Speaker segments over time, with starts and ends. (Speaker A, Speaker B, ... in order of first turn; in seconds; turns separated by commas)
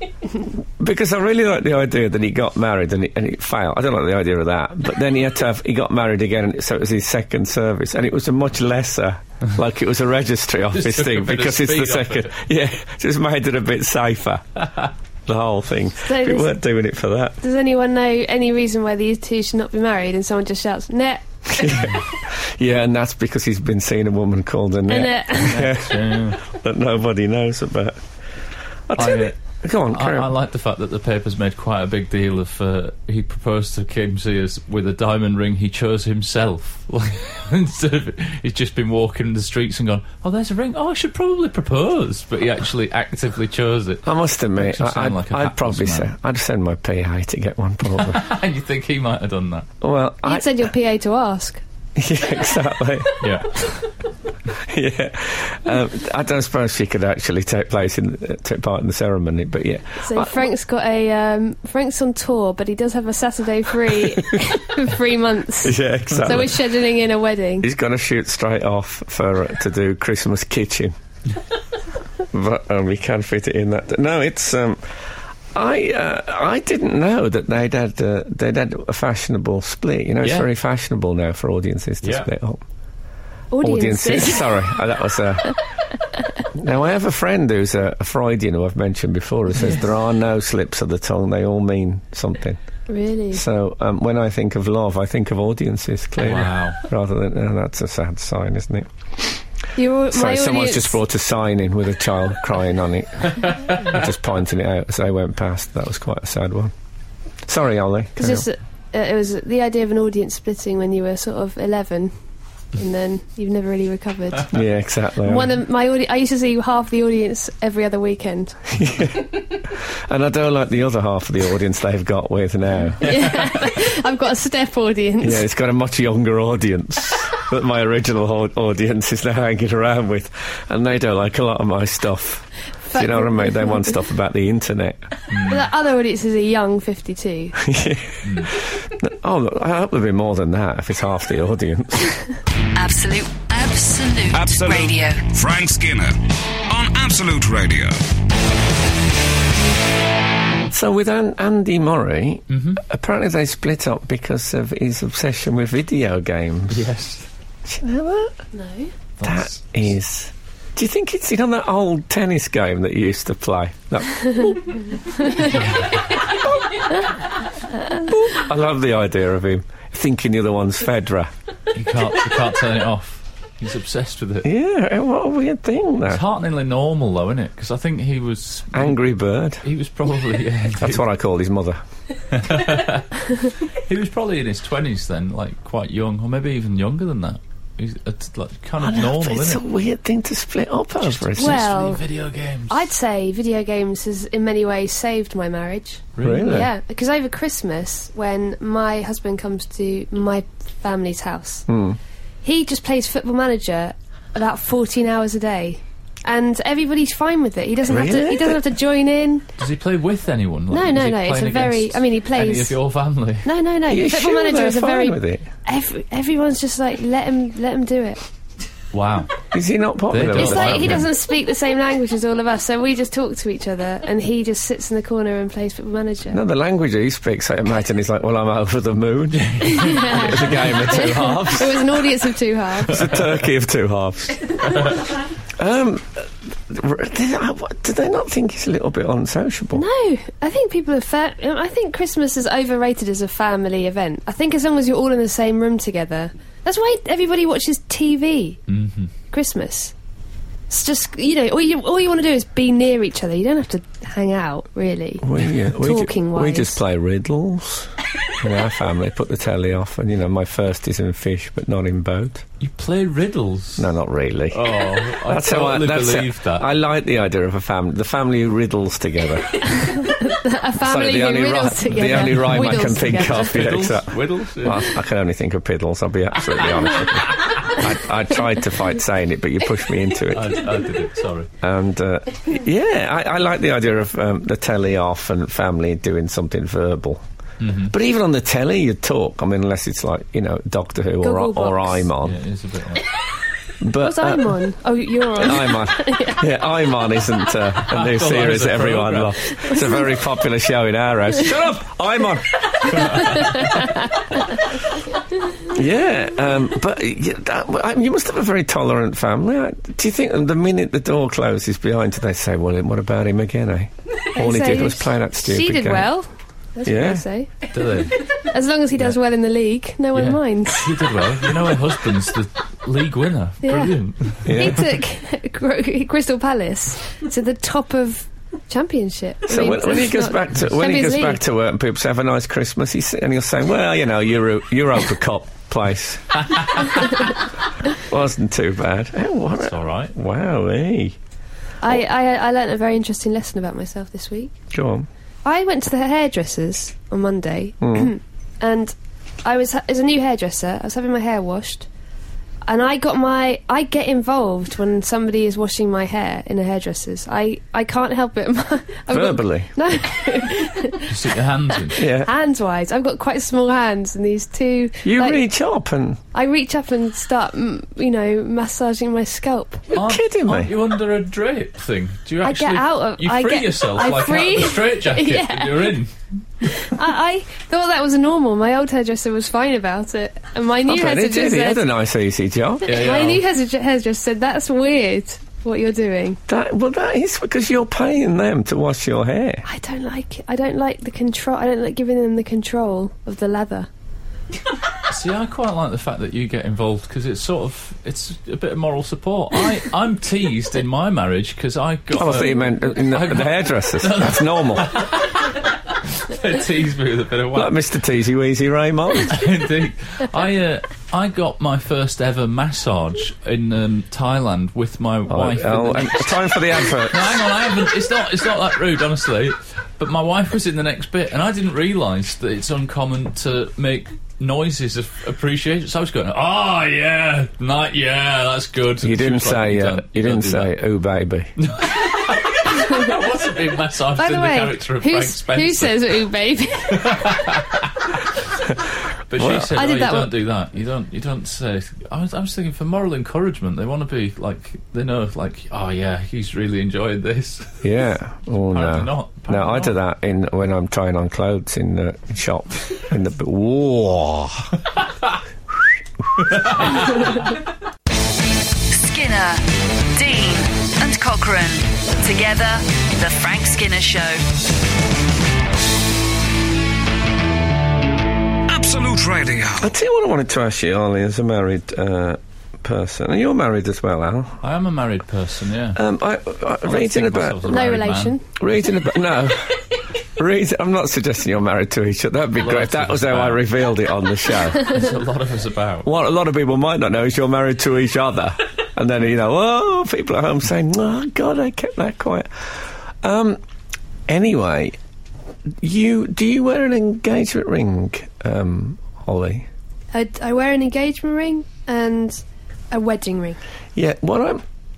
Speaker A: 0.8-14.4, Speaker B: 10.7-12.3, Speaker A: 15.3-17.4, Speaker C: 16.0-16.5, Speaker C: 17.4-21.9, Speaker A: 21.6-28.0, Speaker C: 24.9-25.7, Speaker B: 25.4-26.4, Speaker A: 28.9-30.3, Speaker B: 29.0-29.4, Speaker B: 29.9-46.1, Speaker A: 44.0-48.2, Speaker B: 47.9-49.7, Speaker A: 49.8-50.5, Speaker C: 50.2-51.6, Speaker A: 52.0-53.2, Speaker B: 53.2-53.8, Speaker A: 54.5-60.5, Speaker C: 60.0-67.7, Speaker A: 65.6-66.7, Speaker A: 67.6-71.0, Speaker A: 72.3-74.8, Speaker A: 75.5-82.6, Speaker B: 80.2-80.5, Speaker B: 82.0-82.3, Speaker C: 83.5-84.7, Speaker A: 83.6-85.6, Speaker A: 86.5-92.6, Speaker C: 92.9-93.4, Speaker A: 93.3-99.4, Speaker B: 96.2-96.8, Speaker C: 99.8-101.0, Speaker A: 100.1-106.7, Speaker B: 103.3-104.0, Speaker A: 107.5-108.5, Speaker C: 108.2-112.1, Speaker C: 112.8-114.5, Speaker A: 114.5-115.5, Speaker C: 115.2-118.6, Speaker A: 118.7-123.2, Speaker C: 123.0-125.5, Speaker A: 125.2-135.1, Speaker C: 132.9-133.9, Speaker B: 135.3-135.7, Speaker C: 135.4-137.6, Speaker A: 137.6-142.2, Speaker B: 138.2-138.5, Speaker D: 142.8-145.2, Speaker E: 144.3-146.2, Speaker E: 146.7-148.0, Speaker A: 150.7-156.9, Speaker B: 152.5-152.8, Speaker B: 156.7-157.3, Speaker A: 157.7-158.4, Speaker C: 158.5-158.9, Speaker B: 159.2-159.7, Speaker A: 159.2-165.4, Speaker B: 165.3-166.3, Speaker A: 168.0-171.3, Speaker B: 171.7-174.5, Speaker A: 174.4-176.2, Speaker B: 176.1-179.0, Speaker A: 178.7-179.6, Speaker B: 179.6-181.0, Speaker A: 180.8-181.8, Speaker B: 182.3-189.6, Speaker A: 188.8-191.7, Speaker B: 191.1-192.8, Speaker C: 191.4-192.0, Speaker C: 192.7-201.7, Speaker B: 196.2-196.6, Speaker A: 196.2-196.7, Speaker A: 201.7-202.0, Speaker C: 202.4-209.5, Speaker A: 207.9-208.6, Speaker B: 209.6-213.5, Speaker C: 210.7-212.8, Speaker C: 213.4-218.2, Speaker A: 213.9-215.5, Speaker B: 218.9-219.3, Speaker A: 219.5-221.1, Speaker B: 220.1-221.1, Speaker C: 220.3-226.4, Speaker A: 226.3-231.8, Speaker B: 229.3-231.7, Speaker C: 229.6-233.1, Speaker A: 232.9-234.9, Speaker B: 234.7-235.0, Speaker A: 235.5-239.8, Speaker C: 239.7-248.6, Speaker B: 248.7-249.1, Speaker C: 249.3-249.9, Speaker C: 250.7-256.8, Speaker A: 255.2-262.4, Speaker B: 262.6-263.9, Speaker A: 263.8-269.9, Speaker B: 264.5-266.7, Speaker C: 269.6-273.6, Speaker A: 270.8-280.6, Speaker B: 272.0-274.9, Speaker B: 280.3-281.5, Speaker A: 281.6-287.2, Speaker B: 287.6-287.9, Speaker A: 287.9-292.4, Speaker C: 291.2-292.0, Speaker B: 292.2-293.1, Speaker A: 293.8-294.6, Speaker C: 294.0-296.5, Speaker A: 295.4-303.5, Speaker B: 297.9-299.9, Speaker B: 302.9-303.6, Speaker C: 303.1-304.2, Speaker A: 305.6-316.1, Speaker C: 314.3-317.5, Speaker A: 316.9-317.2, Speaker B: 317.7-318.3, Speaker C: 318.3-321.1, Speaker B: 320.1-324.9, Speaker C: 323.6-331.4, Speaker A: 324.4-324.9, Speaker A: 329.5-337.0, Speaker A: 337.9-341.2, Speaker B: 339.6-340.1, Speaker C: 341.8-344.5, Speaker A: 344.7-345.1, Speaker C: 345.4-351.9, Speaker A: 347.8-348.1, Speaker C: 352.6-361.2, Speaker A: 359.1-359.7, Speaker B: 361.1-362.0, Speaker A: 361.9-362.3, Speaker C: 362.1-365.4, Speaker A: 365.0-366.2, Speaker C: 366.3-369.9, Speaker B: 369.9-376.8, Speaker A: 369.9-370.7, Speaker C: 372.4-376.0, Speaker C: 376.6-381.9, Speaker A: 380.9-383.1, Speaker C: 382.8-386.4, Speaker B: 382.8-383.4, Speaker A: 386.5-389.6, Speaker C: 389.6-393.9, Speaker B: 395.1-407.8, Speaker A: 402.1-405.0, Speaker A: 407.5-409.4, Speaker B: 409.2-430.8, Speaker A: 415.3-417.4, Speaker A: 429.0-431.5, Speaker B: 431.6-436.2, Speaker C: 434.2-437.5, Speaker B: 436.9-438.3, Speaker B: 439.3-447.9, Speaker A: 439.4-439.7, Speaker C: 439.8-440.3, Speaker A: 447.8-454.7, Speaker B: 448.7-450.0, Speaker B: 456.5-457.4, Speaker D: 458.9-464.4, Speaker E: 468.7-469.9, Speaker A: 469.8-474.6, Speaker B: 474.6-476.0, Speaker A: 475.9-477.7, Speaker B: 476.9-478.4, Speaker C: 477.7-478.4, Speaker A: 478.6-485.1, Speaker B: 482.6-483.7, Speaker B: 484.7-486.1, Speaker A: 486.0-493.6, Speaker A: 494.3-495.0, Speaker A: 495.8-499.7, Speaker C: 500.1-503.6, Speaker A: 504.0-504.6